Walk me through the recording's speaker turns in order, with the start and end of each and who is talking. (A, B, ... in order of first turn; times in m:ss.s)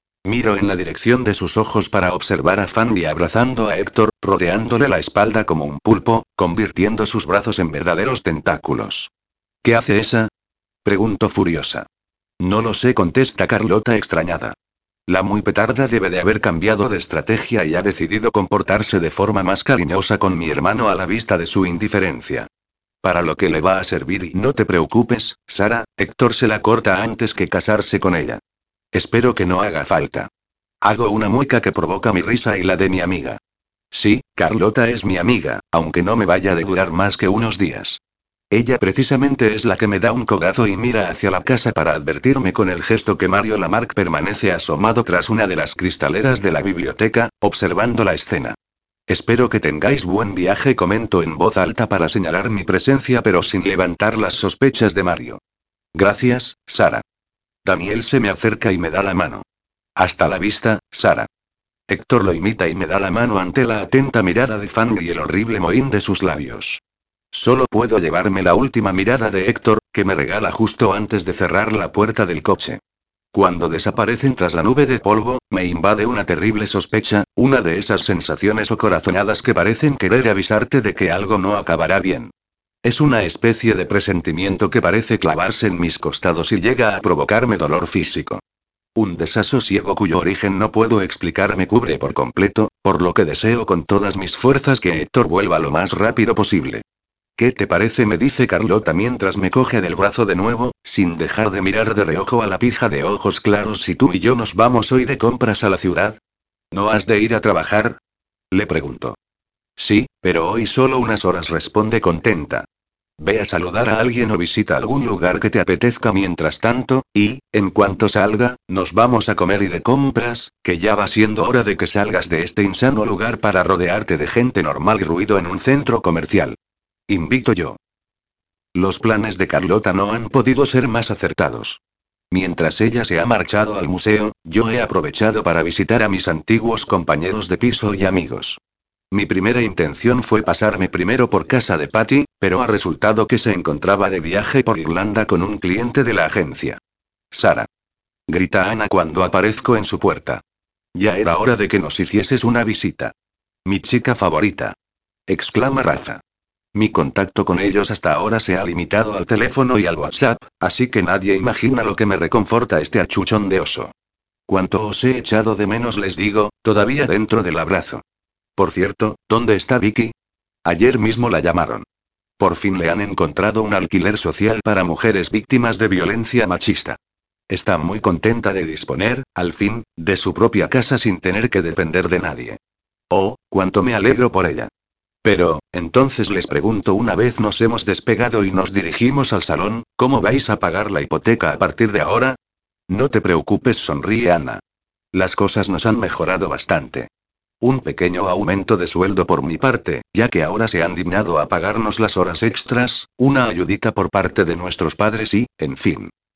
0:00.2-0:09.1 A
0:09.6-0:10.3 A
0:10.8-0:11.9 A
0:12.4-0:14.6 A
0:15.1-0:22.5 A
0:23.0-0:28.4 A
0:28.9-0:30.3 A
0:30.8-0:48.6 A
0:49.1-0:55.4 A
0:56.0-0:57.0 A
0:57.6-0:59.4 A
1:00.0-1:01.3 A
1:01.9-1:12.8 A
1:13.3-1:22.3 A
1:22.8-1:28.4 A
1:29.0-1:36.8 A
1:37.4-1:46.2 A
1:46.7-1:48.0 A
1:48.5-1:49.2 A
1:49.8-1:52.7 A
1:53.2-2:06.6 A
2:07.1-2:07.8 A
2:08.8-2:18.6 A
2:19.1-2:26.8 A
2:27.3-2:27.7 A
2:28.3-2:30.4 A
2:31.0-2:33.1 A
2:33.7-2:34.8 A
2:35.3-2:36.2 A
2:36.7-2:43.9 A
2:44.5-2:48.0 A
2:48.6-2:50.1 A
2:50.6-2:51.9 A
2:52.4-2:57.0 A
2:57.5-3:02.6 A
3:03.1-3:04.7 A
3:05.2-3:12.4 A
3:12.9-3:14.6 A
3:15.1-3:17.1 A
3:17.6-3:26.1 A